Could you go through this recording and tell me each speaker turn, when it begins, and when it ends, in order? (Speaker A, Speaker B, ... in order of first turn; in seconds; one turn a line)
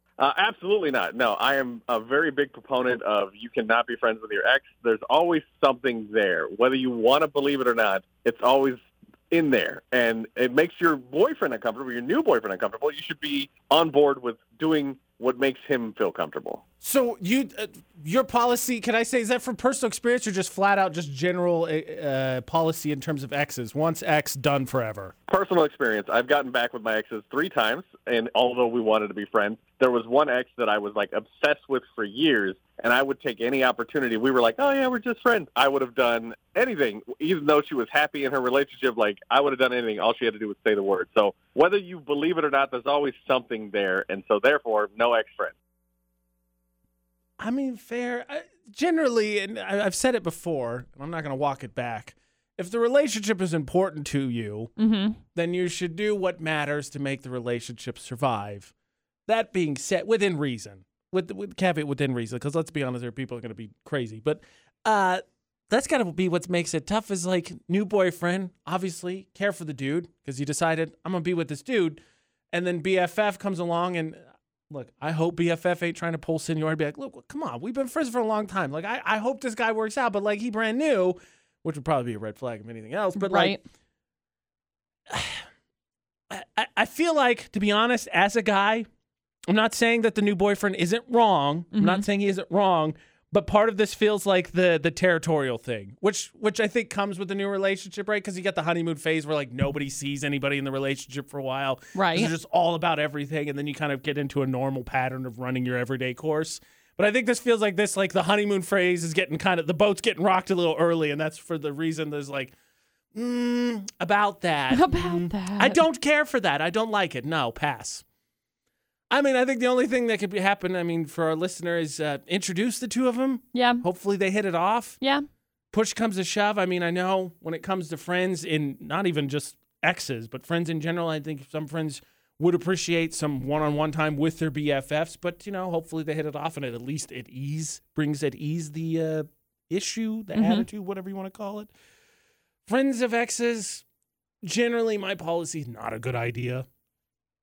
Speaker A: 0.2-8.8
Speaker A: 9.3-16.6
Speaker B: 16.8-25.1
Speaker A: 25.3-45.5
Speaker B: 47.4-54.7
Speaker C: 54.8-55.2
Speaker B: 55.3-58.7
Speaker B: 59.3-72.0
Speaker B: 72.5-83.6
Speaker C: 83.2-83.6
Speaker B: 85.1-85.5
Speaker B: 86.3-88.8
Speaker B: 89.5-112.5
Speaker C: 91.7-92.0
Speaker C: 101.9-102.3
Speaker B: 113.1-118.0
Speaker C: 114.7-115.8
Speaker B: 119.1-125.0
Speaker C: 123.5-123.8
Speaker B: 125.7-141.7
Speaker C: 140.3-140.7
Speaker B: 142.7-143.8
Speaker B: 144.4-146.7